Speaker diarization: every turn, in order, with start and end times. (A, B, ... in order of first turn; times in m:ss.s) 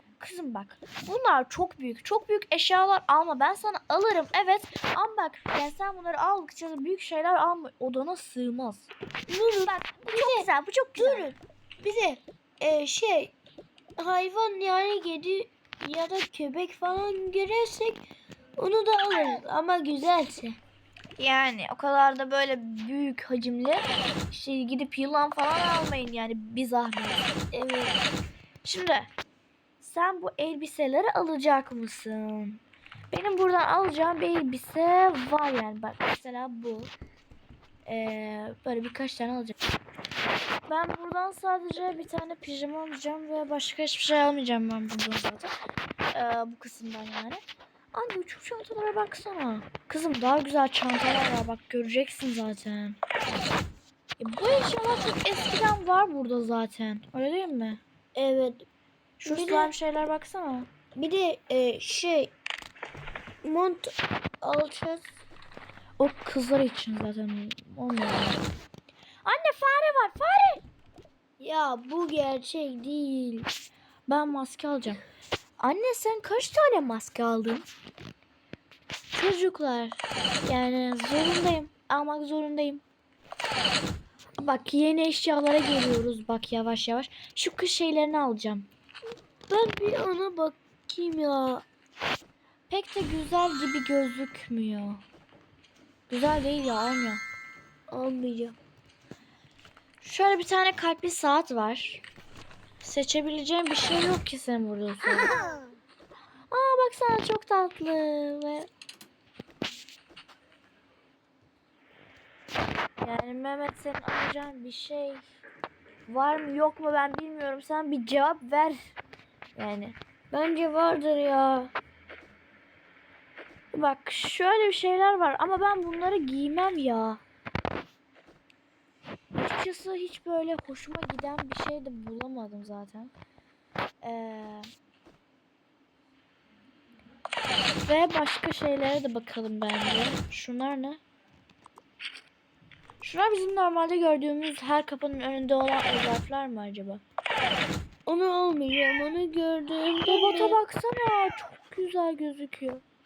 0:00.2-0:08.9 A
0:09.3-0:13.3 B
0:10.1-0:11.4 A
0:14.0-0:18.0 B
0:18.6-0:20.6 B
0:21.2-0:27.3 A
0:27.5-0:28.0 B
0:28.6-0:29.1 A
0:29.8-0:36.9 A
0:37.8-0:39.5 A
0:40.7-0:45.5 A
0:46.1-0:47.4 A
0:47.9-0:53.0 A
0:54.2-0:57.8 A
0:58.1-0:58.6 B
0:59.2-1:00.7 A
0:59.2-0:59.7 B
1:01.0-1:02.3 B
1:03.4-1:05.1 B
1:06.0-1:08.5 A
1:09.2-1:10.6 A
1:11.4-1:13.5 B
1:14.1-1:15.0 A
1:15.6-1:17.6 A
1:19.1-1:22.8 A
1:24.4-1:28.7 A
1:29.5-1:31.6 B
1:32.7-1:35.0 A
1:36.1-1:37.2 A
1:37.9-1:38.6 B
1:40.0-1:42.0 A
1:42.8-1:45.4 A
1:46.5-1:48.7 A
1:53.0-1:55.2 A
1:56.1-1:58.9 A
1:59.6-2:00.0 A
2:00.3-2:01.7 B
2:03.7-2:07.2 A
2:09.3-2:13.1 A
2:14.0-2:14.7 A
2:17.8-2:21.0 A
2:23.0-2:27.0 A
2:28.0-2:30.6 B
2:30.1-2:32.8 A